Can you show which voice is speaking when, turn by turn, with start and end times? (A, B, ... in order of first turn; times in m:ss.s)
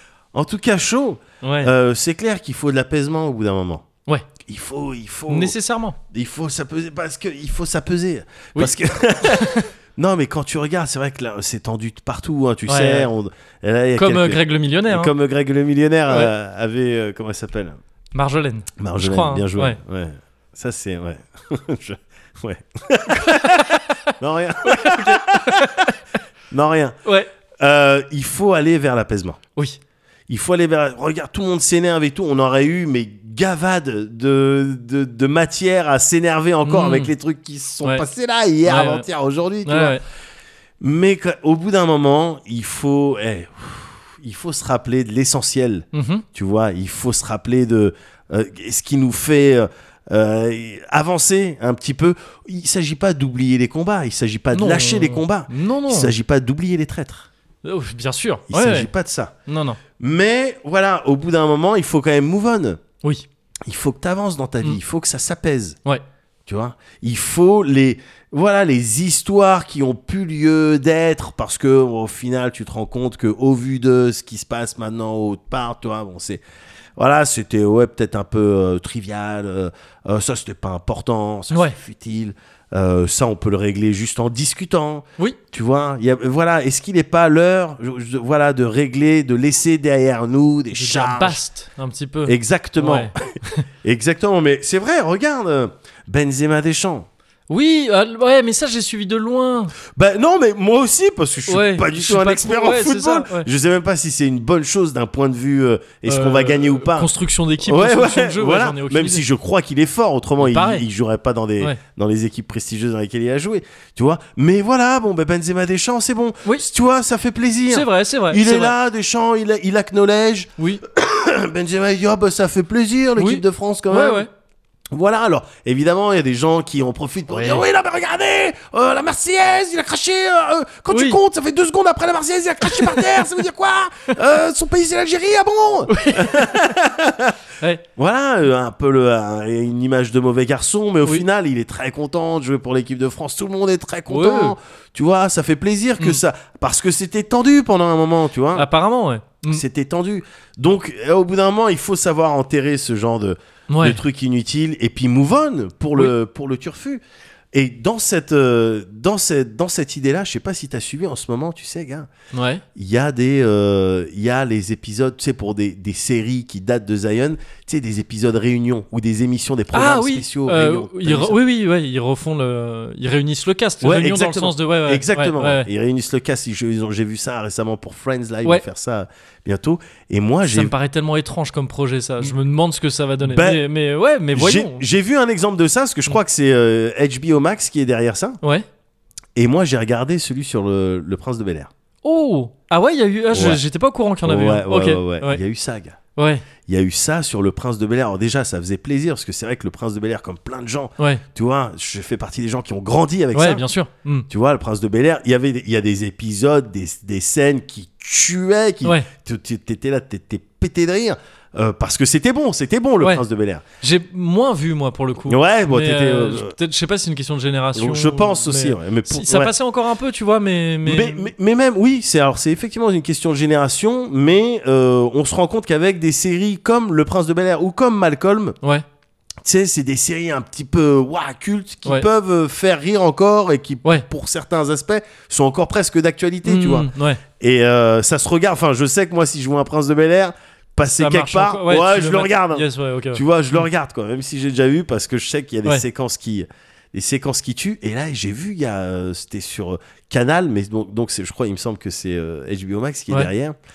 0:00.3-0:03.9 A
0:01.4-0:01.7 B
0:04.4-0:05.6 A
0:05.3-0:06.0 B
0:06.1-0:17.8 A
0:08.6-0:09.7 B
0:12.7-0:13.1 B
0:14.0-0:15.1 B
0:18.1-0:19.8 B
0:18.8-0:25.9 A
0:23.1-0:26.0 B
0:26.5-0:27.0 A
0:27.0-0:27.3 B
0:27.6-0:29.4 A
0:30.3-0:40.0 A
0:36.6-0:37.1 B
0:38.6-0:39.1 B
0:39.6-0:40.0 B
0:40.8-0:57.3 A
0:45.9-0:46.2 B
0:54.5-0:56.1 B
0:57.6-0:58.9 B
0:58.5-0:59.3 A
0:59.5-0:59.8 B
1:00.0-1:02.8 A
1:03.7-1:05.8 A
1:06.5-1:16.4 A
1:17.0-1:31.4 A
1:21.5-1:21.8 B
1:30.7-1:33.6 B
1:32.3-1:37.1 A
1:37.5-1:39.7 B
1:39.9-1:47.1 A
1:41.5-1:43.5 B
1:46.1-1:49.2 B
1:47.6-2:04.3 A
1:50.4-1:50.9 B
1:57.7-1:58.8 B
2:03.2-2:04.3 B
2:04.9-2:17.4 A
2:07.3-2:07.6 B
2:10.9-2:11.2 B
2:12.6-2:13.2 B
2:15.9-2:16.8 B
2:18.0-2:28.7 A
2:24.1-2:24.6 B
2:28.5-2:29.6 B
2:29.5-2:37.0 A
2:33.7-2:34.0 B
2:37.5-2:42.1 A
2:42.3-2:42.6 B
2:42.8-2:51.4 A
2:49.7-2:55.7 B
2:53.8-3:00.7 A
3:00.5-3:04.8 B
3:03.2-3:03.7 A
3:04.3-3:08.4 A
3:09.4-3:11.7 A
3:12.0-3:15.4 B
3:13.3-3:13.6 A
3:14.2-3:16.0 A
3:16.2-3:16.5 B
3:16.6-3:23.6 A
3:23.3-3:24.3 B
3:24.3-3:33.6 A
3:28.8-3:29.1 B
3:33.8-3:41.3 B
3:35.3-3:36.6 A
3:37.8-3:39.5 A
3:40.8-3:48.6 A
3:49.4-4:13.6 A
3:56.4-3:57.2 B
4:00.8-4:03.2 B